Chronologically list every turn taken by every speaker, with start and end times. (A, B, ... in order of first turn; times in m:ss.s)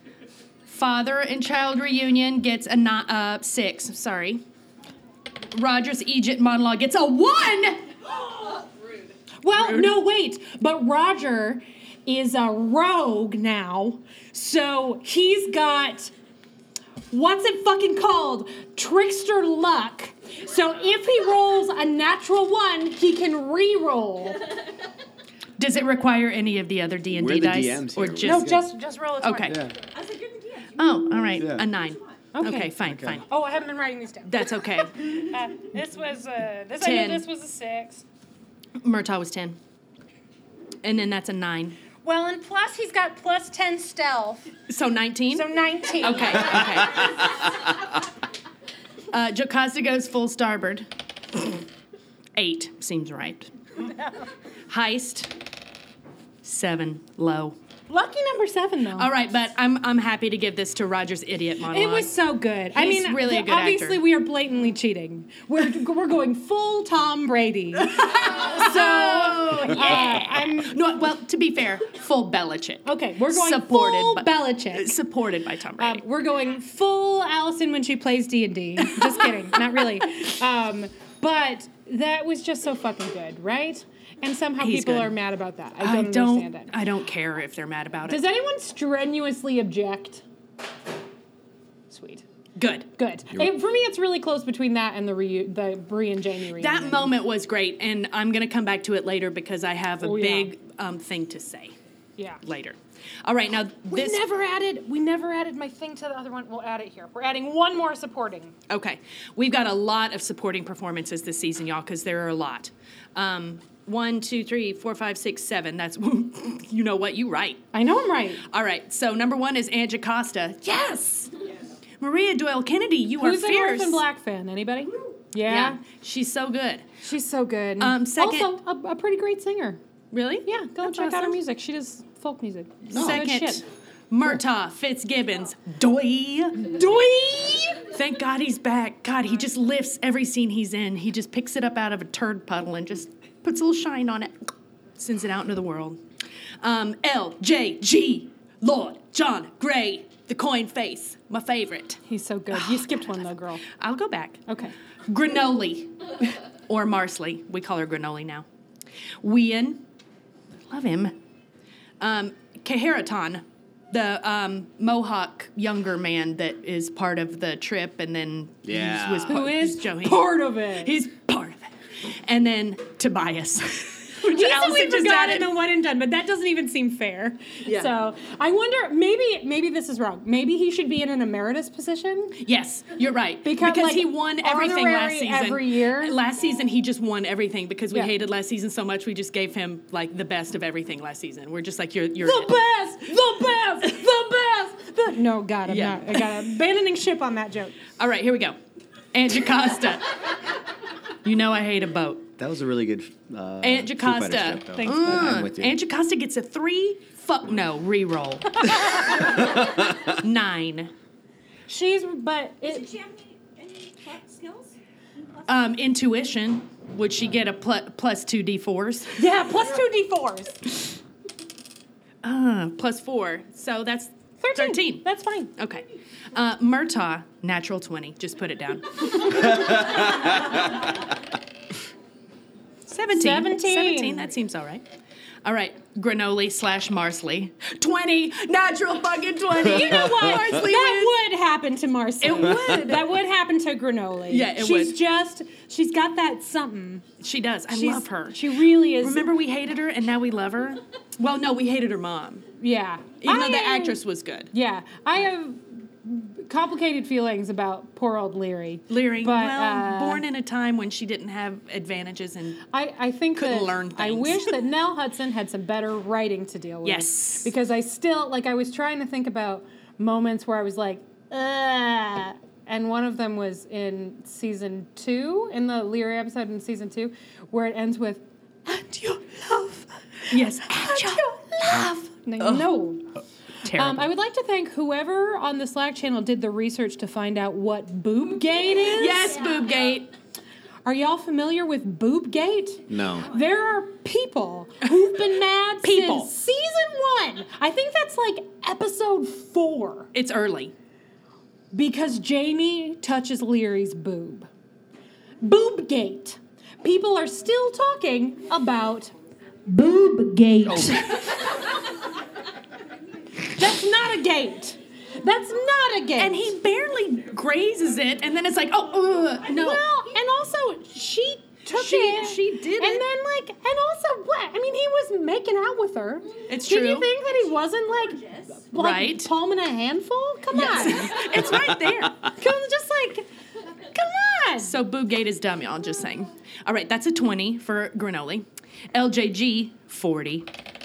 0:00.7-0:04.4 A
0:05.5-0:07.9 A
0:08.2-0:09.0 B
0:09.4-0:16.1 C
0:09.5-0:10.0 A
0:17.1-0:24.5 C
0:25.6-0:28.5 A
0:27.2-0:28.7 D
0:28.2-0:29.7 C
0:29.2-0:29.6 A
0:29.5-0:29.7 D
0:30.0-0:30.7 B
0:30.8-0:33.3 A
0:31.4-0:31.6 D
0:32.4-0:32.8 C
0:32.8-0:33.2 D
0:33.3-0:38.0 C
0:34.3-0:35.1 A
0:36.8-0:37.2 A
0:38.8-0:39.6 A
0:40.8-0:41.8 A
0:42.0-0:44.5 C
0:44.7-0:45.5 A
0:45.3-0:47.1 C
0:46.0-0:47.3 A
0:49.1-0:50.9 A
0:52.4-0:53.5 A
0:54.7-0:55.3 A
0:56.4-0:57.6 A
0:57.9-0:59.1 C
0:59.0-1:02.1 A
1:01.7-1:10.8 C
1:02.7-1:04.0 A
1:08.0-1:16.0 A
1:12.8-1:15.0 C
1:15.8-1:26.7 C
1:24.6-1:25.1 A
1:25.8-1:28.2 A
1:28.1-1:30.2 C
1:31.9-1:32.2 C
1:32.6-1:32.9 A
1:33.0-1:37.1 C
1:36.6-1:41.8 A
1:40.0-1:40.5 C
1:42.4-1:44.2 A
1:43.9-1:48.5 C
1:48.7-1:57.6 A
1:57.7-1:58.4 C
1:58.5-2:01.3 A
2:02.0-2:04.0 A
2:03.2-2:05.8 C
2:05.5-2:06.8 A
2:07.0-2:09.8 C
2:07.8-2:08.5 A
2:10.1-2:11.4 A
2:10.5-2:13.6 C
2:12.9-2:16.7 A
2:12.9-2:13.2 D
2:16.6-2:17.8 C
2:17.9-2:26.0 A
2:26.6-2:32.0 A
2:32.1-2:33.6 C
2:32.5-2:33.1 A
2:33.7-2:34.5 A
2:34.5-2:34.7 C
2:35.1-2:38.5 A
2:39.2-2:39.8 A
2:40.7-2:41.2 A
2:42.0-2:50.3 A
2:48.6-2:49.4 D
2:49.3-2:50.9 C
2:50.8-2:55.5 A
2:54.2-3:02.4 C
3:02.4-3:12.5 A
3:03.4-3:06.2 C
3:12.2-3:17.8 C
3:15.7-3:16.2 A
3:18.0-3:18.6 A
3:19.1-3:20.1 A
3:21.2-3:22.3 A
3:22.4-3:25.8 D
3:23.6-3:30.9 A
3:24.8-3:25.3 C
3:31.7-3:32.9 C
3:32.7-3:34.8 B
3:35.5-3:39.2 A
3:39.2-3:40.6 C
3:42.2-3:45.0 A
3:44.4-3:45.5 C
3:45.6-3:50.1 A
3:52.9-3:54.8 A
3:53.1-3:54.3 C
3:55.4-4:01.1 A
3:59.6-4:07.0 C
4:02.2-4:03.1 A
4:04.3-4:05.0 A
4:07.2-4:12.5 A
4:07.7-4:09.3 C
4:12.6-4:14.0 C
4:13.2-4:14.5 A
4:14.5-4:20.2 C
4:18.9-4:22.6 A
4:22.7-4:43.0 C
4:23.4-4:24.5 A
4:26.8-4:27.5 A
4:40.3-4:42.7 A
4:43.6-4:44.1 A
4:43.7-4:49.4 C
4:48.9-4:50.1 A
4:50.8-5:00.1 C
4:52.9-4:53.3 D
4:55.8-4:56.3 A
5:00.1-5:00.7 A
5:01.7-5:04.5 C
5:05.4-5:09.1 C
5:09.7-5:11.4 C
5:10.7-5:11.0 D
5:13.5-5:16.5 C
5:16.2-5:19.8 A
5:19.5-5:31.4 C
5:21.7-5:23.0 A
5:26.5-5:27.1 A
5:28.8-5:29.3 A
5:30.5-5:32.3 A
5:32.2-5:33.3 C
5:33.8-5:34.7 C
5:34.6-5:40.5 A